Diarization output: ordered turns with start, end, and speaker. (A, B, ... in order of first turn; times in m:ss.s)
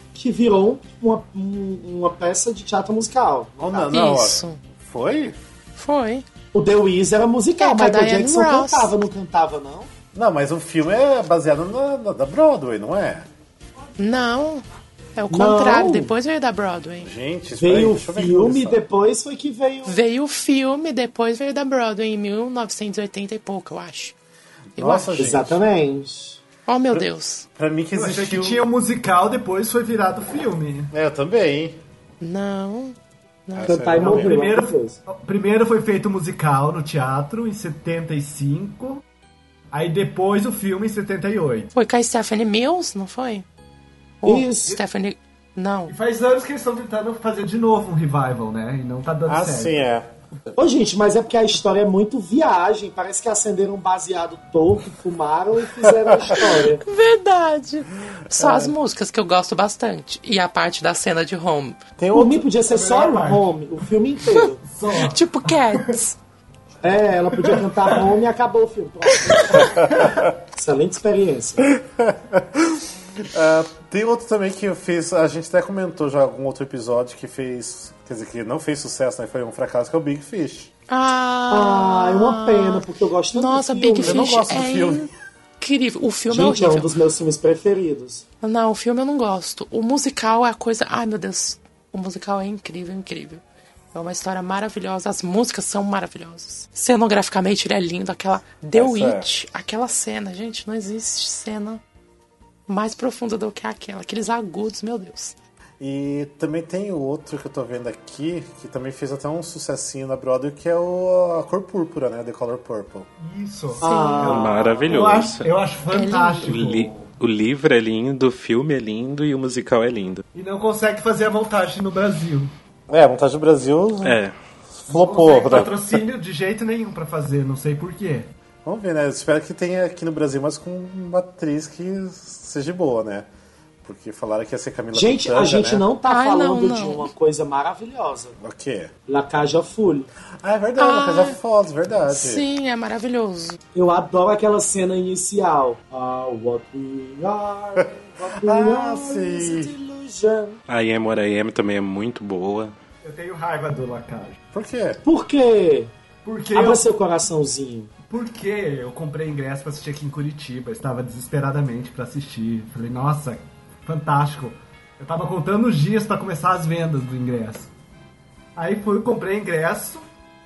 0:00.1-0:04.0 A
0:03.6-0:05.4 B
0:03.9-0:04.6 C
0:05.8-0:06.2 C
0:06.5-0:09.9 A
0:07.6-0:08.9 C
0:10.1-0:13.3 B
0:14.0-0:14.6 C
0:15.2-0:17.1 C
0:15.3-0:16.1 A
0:17.0-0:18.8 B
0:17.6-0:20.0 A
0:19.8-0:24.2 C
0:24.8-0:25.3 C
0:24.8-0:25.6 B
0:25.2-0:26.4 A
0:26.7-0:27.5 C
0:27.6-0:28.6 B
0:27.9-0:30.9 D
0:30.9-0:31.8 B
0:32.2-0:33.0 C
0:33.5-0:34.0 C
0:33.5-0:34.4 B
0:33.6-0:35.0 A
0:34.0-0:39.0 D
0:39.7-0:41.7 D
0:41.7-0:43.5 C
0:44.2-0:45.9 C
0:44.2-0:44.8 A
0:45.9-0:49.9 D
0:49.3-0:50.1 B
0:50.6-0:56.8 A
0:56.7-1:01.8 C
0:58.3-0:58.8 B
1:02.0-1:02.4 B
1:02.1-1:04.6 A
1:02.6-1:03.4 D
1:04.6-1:06.0 D
1:04.9-1:06.2 C
1:06.8-1:11.7 A
1:07.4-1:08.1 D
1:09.7-1:10.2 D
1:11.7-1:20.7 B
1:20.9-1:25.1 C
1:21.5-1:24.4 A
1:24.0-1:25.1 B
1:25.6-1:26.9 C
1:26.3-1:28.2 A
1:28.4-1:33.4 C
1:33.9-1:41.8 C
1:38.8-1:39.3 B
1:42.7-1:45.4 C
1:45.8-1:53.1 B
1:53.2-1:57.1 D
1:53.8-1:54.4 C
1:53.8-1:54.6 A
1:54.2-1:55.5 E
1:55.9-1:56.6 C
1:56.5-2:00.2 E
2:00.4-2:02.5 D
2:02.9-2:04.2 B
2:04.0-2:04.3 E
2:04.7-2:05.8 B
2:04.9-2:08.3 D
2:08.6-2:13.3 B
2:13.8-2:15.8 B
2:14.9-2:18.4 A
2:16.1-2:17.1 C
2:18.4-2:18.9 B
2:19.1-2:20.1 A
2:20.4-2:22.4 B
2:20.8-2:21.4 C
2:22.1-2:23.6 C
2:23.8-2:30.6 A
2:28.4-2:29.7 B
2:30.7-2:32.7 E
2:33.0-2:34.4 D
2:34.5-2:35.0 B
2:35.0-2:35.9 A
2:36.2-2:36.9 D
2:36.5-2:37.9 A
2:38.1-2:47.7 D
2:48.6-2:50.0 D